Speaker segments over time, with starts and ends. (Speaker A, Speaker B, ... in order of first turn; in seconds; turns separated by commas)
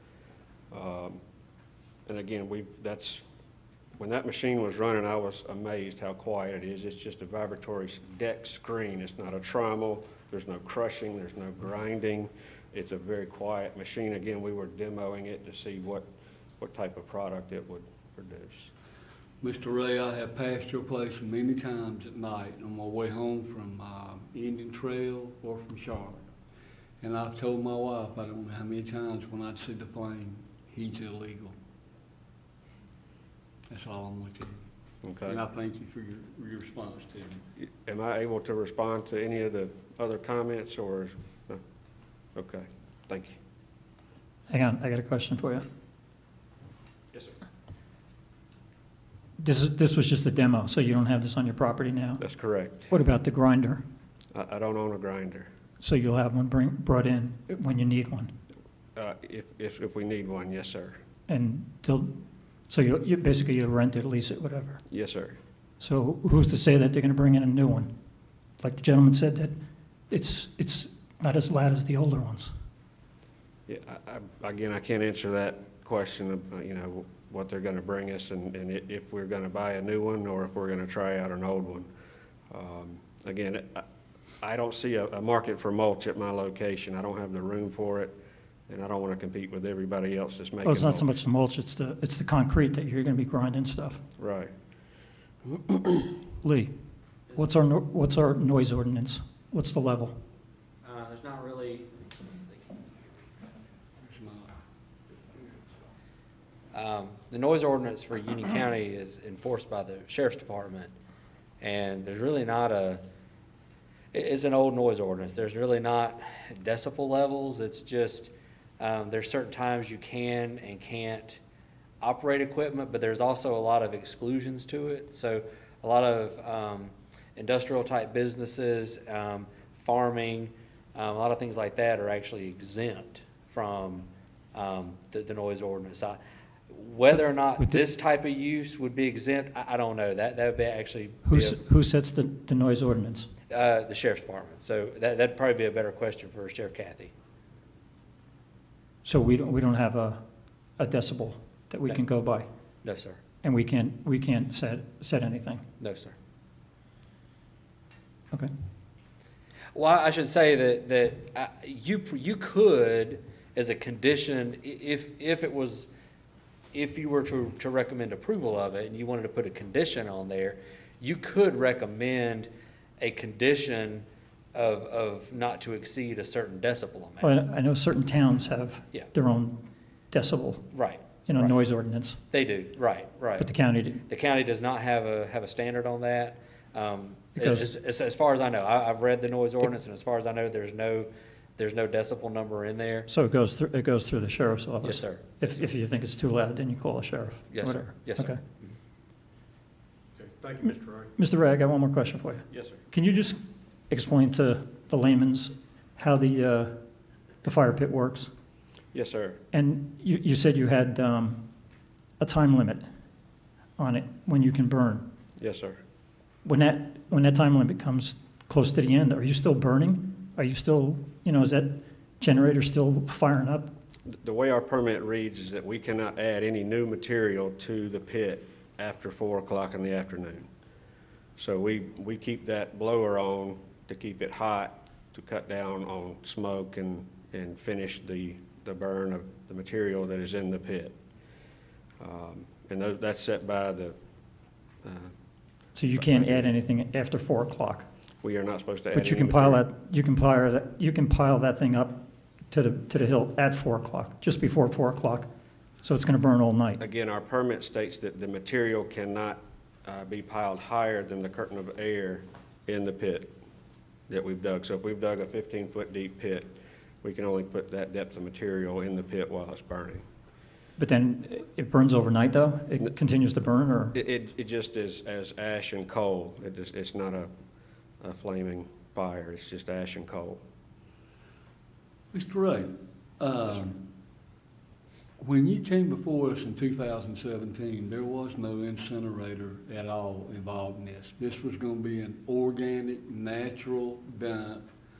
Speaker A: 0.7-1.2, Speaker A: 2.1-3.2, Speaker A: 4.0-16.1, Speaker A: 16.6-18.7, Speaker B: 19.4-26.2, Speaker B: 27.0-31.5, Speaker B: 33.7-34.6, Speaker A: 35.0-35.4, Speaker B: 35.2-37.4, Speaker A: 37.6-41.6, Speaker A: 42.4-43.4, Speaker C: 44.5-45.6, Speaker C: 49.4-52.2, Speaker A: 52.2-52.9, Speaker C: 52.9-53.8, Speaker A: 54.3-55.5, Speaker C: 55.8-58.3, Speaker A: 59.0-61.0, Speaker C: 61.3-62.1, Speaker C: 62.7-64.8, Speaker A: 64.9-65.4, Speaker C: 65.8-67.9, Speaker C: 68.6-69.5, Speaker C: 70.1-72.5, Speaker A: 73.7-81.9, Speaker A: 82.5-83.8, Speaker A: 84.4-88.2, Speaker A: 88.7-91.1, Speaker C: 90.6-94.0, Speaker A: 94.2-94.5, Speaker C: 96.4-96.7, Speaker C: 97.3-100.2, Speaker D: 100.8-103.2, Speaker B: 104.0-104.5, Speaker D: 106.7-110.9, Speaker D: 111.6-113.0, Speaker D: 114.1-121.4, Speaker D: 122.0-136.2, Speaker D: 136.7-141.6, Speaker C: 137.6-137.8, Speaker C: 141.2-143.3, Speaker D: 143.5-147.1, Speaker C: 149.0-150.2, Speaker C: 150.8-152.5, Speaker D: 152.8-153.2, Speaker C: 153.4-155.6, Speaker D: 155.8-156.2, Speaker D: 159.7-165.9, Speaker D: 166.7-177.3, Speaker C: 177.2-179.6, Speaker C: 180.1-180.7, Speaker D: 180.7-181.5, Speaker C: 181.3-182.2, Speaker D: 182.3-183.5, Speaker C: 183.4-184.0, Speaker D: 184.1-193.1, Speaker C: 187.4-187.7, Speaker C: 193.1-198.4, Speaker D: 194.8-195.4, Speaker D: 197.5-198.7, Speaker A: 200.2-201.0, Speaker C: 201.2-203.4, Speaker A: 202.5-202.8, Speaker C: 203.9-206.8, Speaker C: 207.4-208.3, Speaker A: 208.9-209.4, Speaker C: 209.5-211.4, Speaker C: 212.2-212.8, Speaker C: 213.8-215.1, Speaker A: 215.4-215.8, Speaker C: 216.4-223.7, Speaker A: 224.1-230.5, Speaker A: 231.4-241.0, Speaker A: 242.0-243.9, Speaker A: 244.8-245.1, Speaker C: 245.7-247.8, Speaker A: 245.9-246.5, Speaker A: 248.2-249.6, Speaker C: 248.9-255.3, Speaker C: 255.8-256.8, Speaker A: 256.8-263.3, Speaker A: 264.1-266.5, Speaker A: 267.0-270.0, Speaker C: 270.8-273.9, Speaker A: 273.9-277.3, Speaker A: 278.0-280.4, Speaker B: 282.1-283.8, Speaker B: 285.2-294.6